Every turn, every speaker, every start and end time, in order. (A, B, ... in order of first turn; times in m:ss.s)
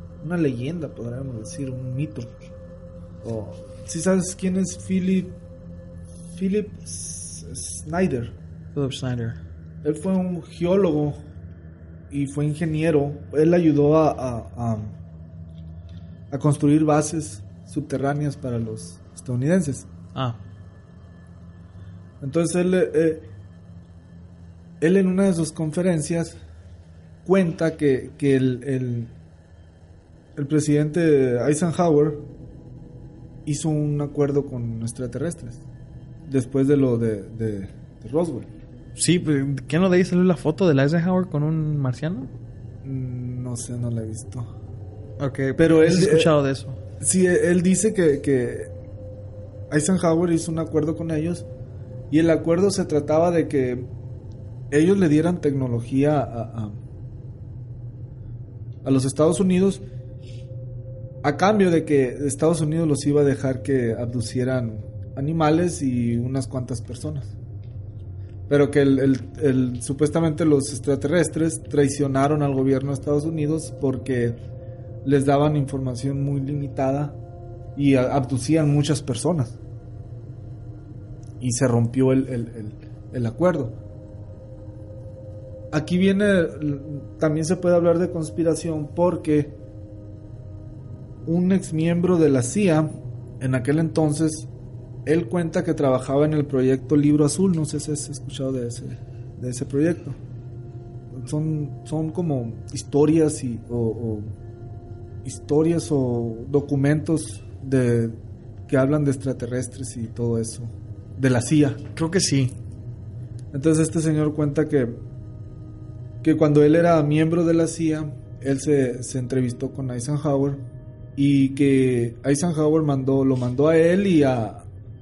0:00.2-0:02.3 A
0:03.2-0:05.4 A
0:06.3-0:08.4 A
0:08.7-0:09.4 B
0:09.8-0:11.3 A
0:12.1-0:15.0 A
0:16.3-0:19.9 A
0:20.1-0:20.4 B
0:22.2-0:23.3 A
0:24.8-0:26.4 A
0:27.2-0:29.1 A
0:30.4-0:32.3 A
0:33.4-0:35.6 A
0:36.2-0:38.5 A
0:39.0-0:42.3 B
0:42.8-0:44.5 A
0:45.2-0:46.8 B
0:45.6-0:46.3 A
0:47.0-0:48.7 A
0:49.7-0:51.5 A
0:52.1-0:53.9 A
0:54.7-0:56.8 A
0:58.8-0:59.8 A
1:01.2-1:07.4 A
1:08.5-1:14.4 A
1:15.0-1:17.2 A
1:17.8-1:19.6 A
1:21.4-1:23.8 A
1:25.7-1:29.6 A
1:31.2-1:34.5 A
1:35.1-1:40.2 A
1:41.1-1:44.4 A
1:45.2-1:51.8 A
1:51.9-1:52.6 B
1:53.5-1:55.0 A
1:56.2-2:04.7 A